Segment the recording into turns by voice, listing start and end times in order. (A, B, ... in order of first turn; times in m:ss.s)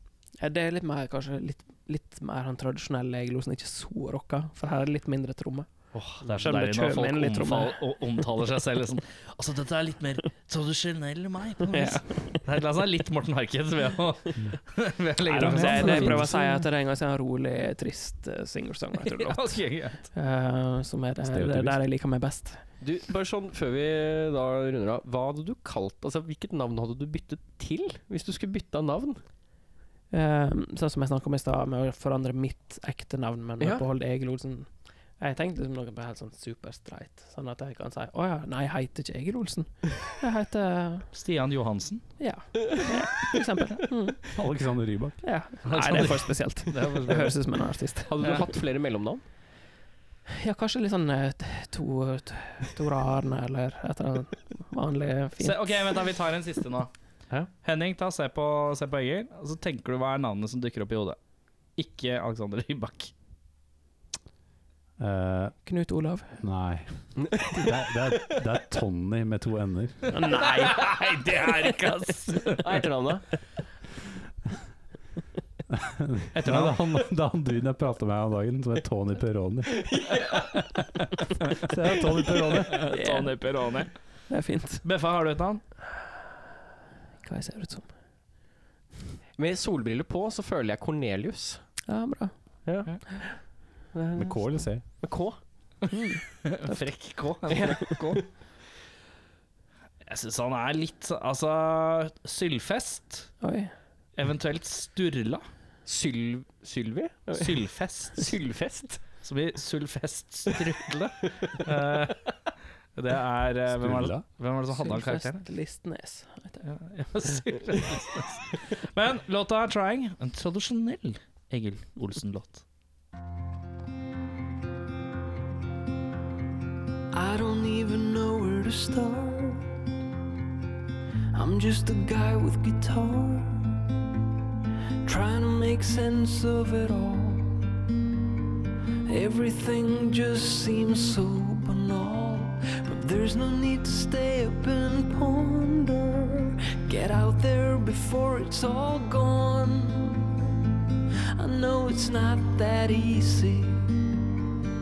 0:00.4-0:07.9 A
0:05.9-0:16.4 B
0:11.7-0:12.4 A
0:15.2-0:22.6 A
0:15.4-0:16.6 C
0:19.0-0:20.0 B
0:21.2-0:21.8 C
0:22.8-0:29.2 D
0:30.1-0:41.1 A
0:33.6-0:33.9 D
0:41.1-0:42.2 B
0:42.2-0:44.3 A
0:44.3-0:45.2 C
0:45.2-0:48.4 A
0:45.6-0:47.4 B
0:48.0-0:49.2 D
0:50.3-0:56.0 A
0:55.4-0:56.9 B
0:57.5-1:01.2 B
1:01.7-1:03.1 B
1:05.0-1:05.6 C
1:05.6-1:06.4 A
1:06.4-1:10.2 C
1:07.2-1:07.7 D
1:10.1-1:11.7 A
1:10.3-1:12.8 B
1:12.6-1:13.3 D
1:15.7-1:20.0 C
1:16.3-1:16.8 B
1:19.9-1:20.4 D
1:20.5-1:20.8 B
1:21.6-1:22.8 C
1:22.7-1:24.3 B
1:22.9-1:23.7 A
1:24.3-1:24.9 A
1:24.8-1:25.6 B
1:27.2-1:27.9 A
1:29.4-1:31.7 D
1:31.9-1:32.3 A
1:32.6-1:35.4 D
1:34.2-1:34.8 C
1:35.9-1:37.1 A
1:36.4-1:38.2 B
1:37.5-1:38.3 D
1:40.0-1:43.4 B
1:43.4-1:43.7 A
1:44.2-1:45.4 B
1:45.9-1:49.0 D
1:47.3-1:48.3 B
1:49.2-1:52.4 B
1:50.9-1:51.6 D
1:53.0-1:55.5 B
1:53.7-1:54.2 C
1:54.7-1:56.6 A
1:56.6-2:02.6 B
2:07.1-2:09.7 E
2:11.3-2:13.7 E
2:15.0-2:17.6 E
2:19.1-2:30.5 E
2:31.3-2:34.1 E